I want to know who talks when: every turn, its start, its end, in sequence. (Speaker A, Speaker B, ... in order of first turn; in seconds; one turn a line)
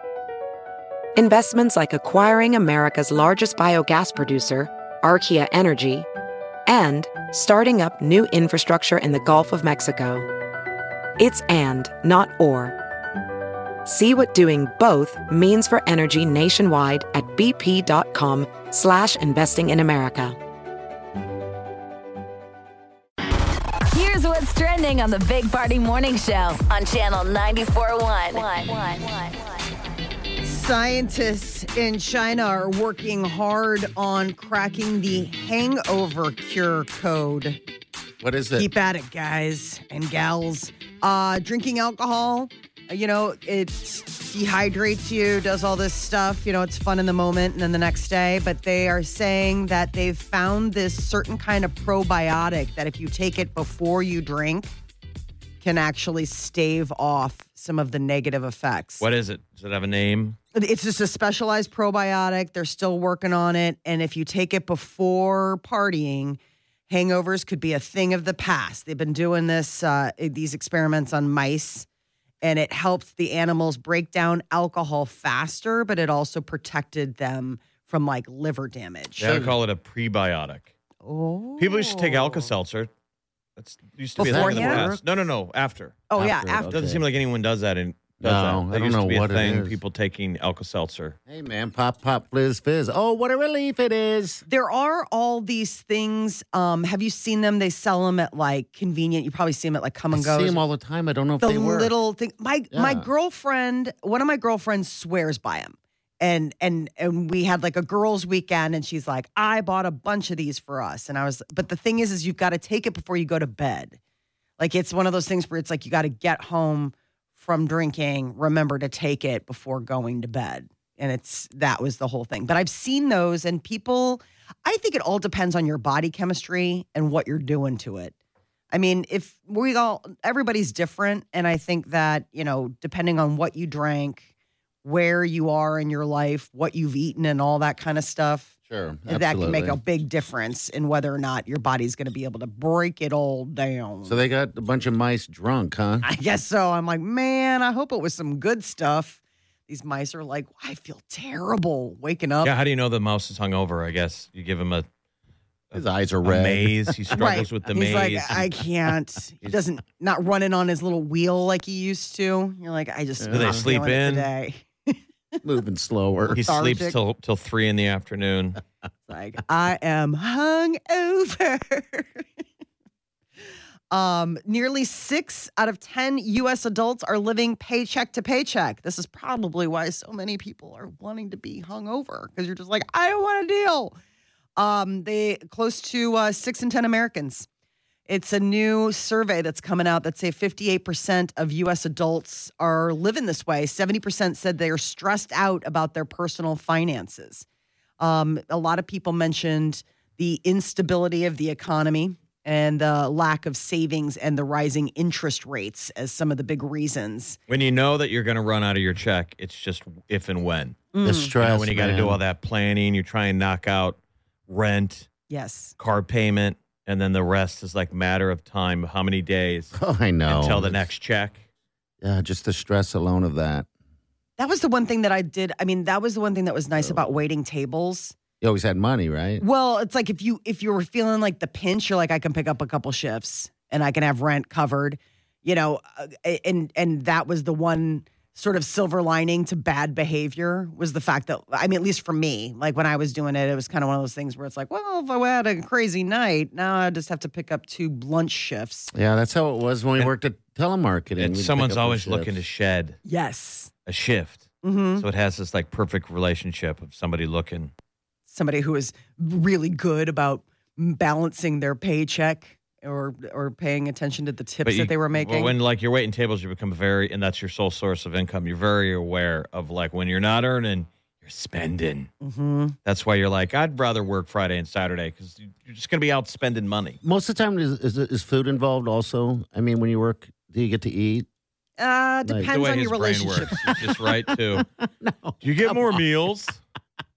Speaker A: 1.2-6.1
Speaker A: 6.7-10.3
Speaker A: 11.2-12.8
Speaker A: 13.8-20.4
Speaker B: 23.9-29.4
Speaker C: 30.4-37.6
Speaker D: 38.2-38.7
Speaker C: 38.6-54.7
Speaker C: 55.6-59.1
Speaker E: 59.0-60.4
Speaker C: 60.5-71.9
Speaker C: 72.4-79.2
Speaker E: 79.2-80.7
Speaker D: 79.2-79.5
Speaker C: 81.0-82.5
Speaker E: 81.6-82.9
Speaker E: 83.6-86.1
Speaker C: 84.2-84.9
Speaker D: 84.2-85.0
Speaker C: 86.1-86.7
Speaker D: 86.2-87.0
Speaker E: 86.7-91.2
Speaker D: 88.2-89.8
Speaker D: 91.3-94.4
Speaker C: 94.5-100.6
Speaker D: 100.1-101.9
Speaker C: 101.4-114.0
Speaker D: 102.7-103.1
Speaker C: 114.6-128.1
Speaker C: 128.7-134.3
Speaker C: 134.8-138.5
Speaker D: 138.7-139.8
Speaker C: 139.1-144.2
Speaker D: 144.1-146.1
Speaker C: 146.0-152.5
Speaker E: 152.4-154.9
Speaker E: 155.7-158.5
Speaker D: 155.7-157.6
Speaker C: 157.2-165.0
Speaker D: 163.2-163.6
Speaker E: 163.3-164.3
Speaker D: 165.4-166.4
Speaker E: 166.3-168.6
Speaker C: 166.4-167.0
Speaker C: 169.1-172.2
Speaker C: 173.9-183.9
Speaker C: 184.6-187.5
Speaker C: 188.1-197.5
Speaker C: 198.0-207.4
Speaker E: 207.5-210.9
Speaker C: 210.9-211.3
Speaker D: 211.0-212.2
Speaker E: 211.4-215.1
Speaker C: 215.3-215.7
Speaker E: 215.8-219.8
Speaker D: 219.8-220.9
Speaker E: 220.3-221.4
Speaker D: 222.0-223.7
Speaker C: 224.4-228.2
Speaker D: 226.8-227.1
Speaker D: 228.4-229.4
Speaker C: 229.4-248.9
Speaker D: 248.9-252.4
Speaker E: 251.2-253.0
Speaker C: 253.1-253.7
Speaker E: 253.9-254.4
Speaker C: 254.6-255.1
Speaker E: 255.0-257.7
Speaker C: 258.3-265.6
Speaker E: 264.6-272.1
Speaker C: 272.2-272.8
Speaker E: 272.9-277.0
Speaker D: 277.0-281.3
Speaker C: 281.8-283.8
Speaker D: 282.2-282.5
Speaker E: 282.5-284.6
Speaker D: 283.6-286.0
Speaker E: 285.4-286.6